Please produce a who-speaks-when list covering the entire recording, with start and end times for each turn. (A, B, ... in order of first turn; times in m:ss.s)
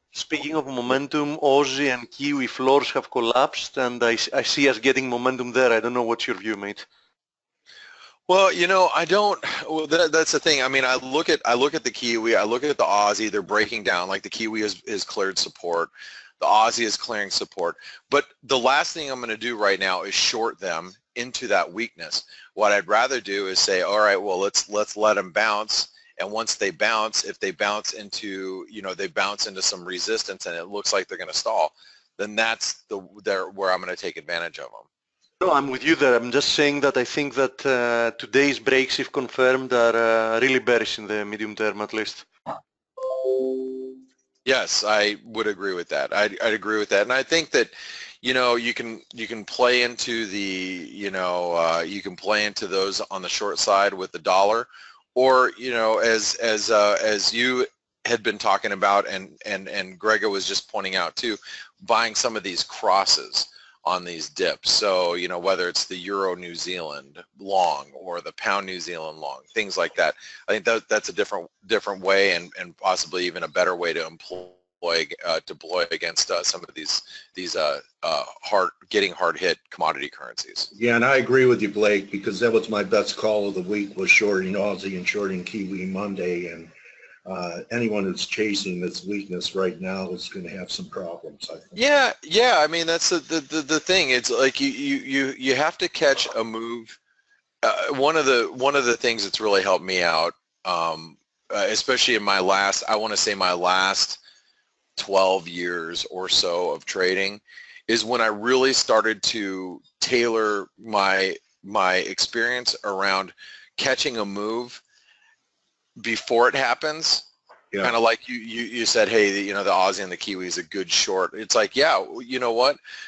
0:00.1-0:06.8 A
0:08.3-0:34.8 B
0:35.4-0:42.3 A
0:44.4-1:20.7 B
1:20.7-1:26.7 C
1:27.2-1:31.8 C
1:31.7-1:37.0 B
1:37.6-1:44.2 B
1:45.0-1:54.8 B
1:56.0-1:57.2 B
1:57.8-2:02.8 B